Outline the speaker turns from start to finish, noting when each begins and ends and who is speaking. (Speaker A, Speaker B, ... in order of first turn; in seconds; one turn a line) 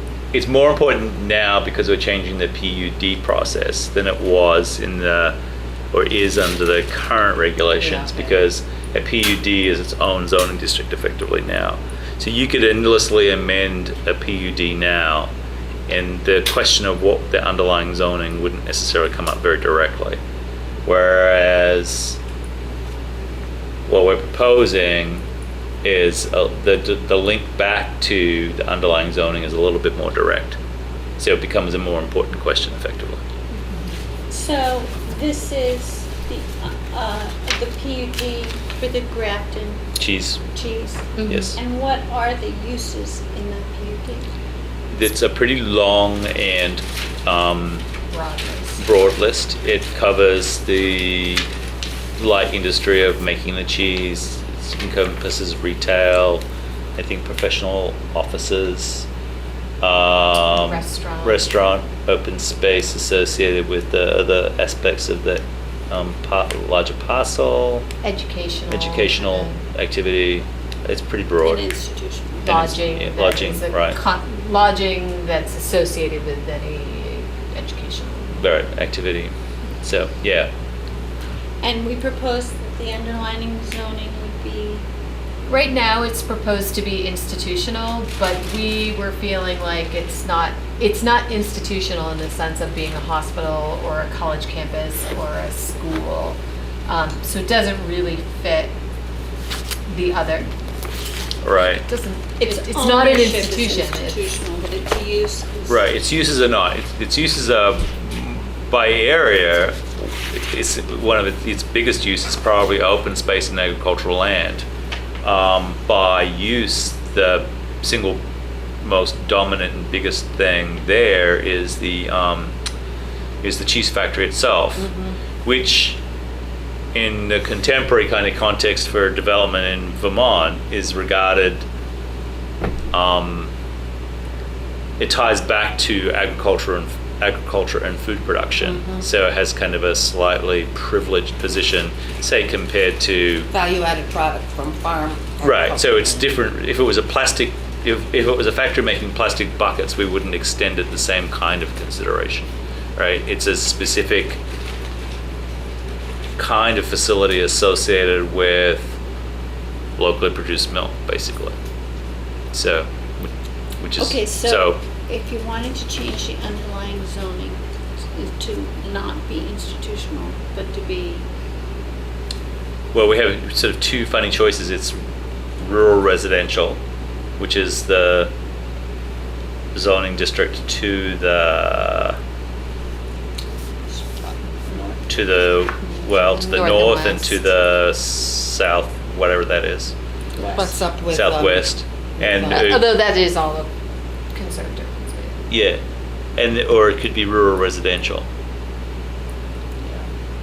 Speaker A: 0.3-5.4
Speaker A: 5.9-15.3
Speaker B: 7.8-8.4
Speaker A: 15.9-20.2
Speaker A: 20.9-22.2
Speaker A: 23.9-25.2
Speaker A: 25.8-30.6
Speaker A: 31.2-33.2
Speaker C: 34.3-39.9
Speaker A: 40.0-40.4
Speaker C: 40.5-44.3
Speaker D: 41.2-41.5
Speaker A: 41.3-41.6
Speaker A: 44.9-47.9
Speaker D: 48.1-48.8
Speaker A: 48.8-51.5
Speaker A: 52.2-56.4
Speaker A: 57.0-59.1
Speaker A: 59.8-67.9
Speaker D: 60.5-61.5
Speaker D: 68.0-69.6
Speaker A: 68.7-71.6
Speaker C: 71.4-72.6
Speaker D: 72.4-78.3
Speaker A: 72.5-74.0
Speaker A: 78.3-80.5
Speaker C: 81.6-84.8
Speaker D: 85.5-98.7
Speaker D: 99.9-100.5
Speaker A: 101.4-101.8
Speaker D: 101.8-104.2
Speaker C: 102.4-105.8
Speaker A: 105.7-114.7
Speaker A: 115.2-118.2
Speaker A: 118.8-122.5
Speaker A: 123.4-124.9
Speaker B: 124.8-125.2
Speaker A: 125.4-126.0
Speaker A: 126.9-131.7
Speaker A: 132.9-133.5
Speaker A: 135.0-143.5
Speaker B: 138.6-139.0
Speaker B: 143.5-146.3
Speaker A: 145.4-154.4
Speaker A: 156.4-159.0
Speaker A: 160.0-161.6
Speaker A: 162.5-164.8
Speaker C: 164.0-167.6
Speaker C: 168.2-171.2
Speaker A: 172.9-175.0
Speaker A: 175.6-176.8
Speaker A: 177.4-178.3
Speaker A: 179.7-182.2
Speaker B: 184.1-184.8
Speaker A: 185.1-189.9
Speaker D: 186.3-187.4
Speaker B: 190.4-192.7
Speaker A: 191.1-192.9
Speaker D: 192.4-193.7
Speaker D: 194.3-195.4
Speaker A: 195.5-195.8
Speaker A: 196.4-198.3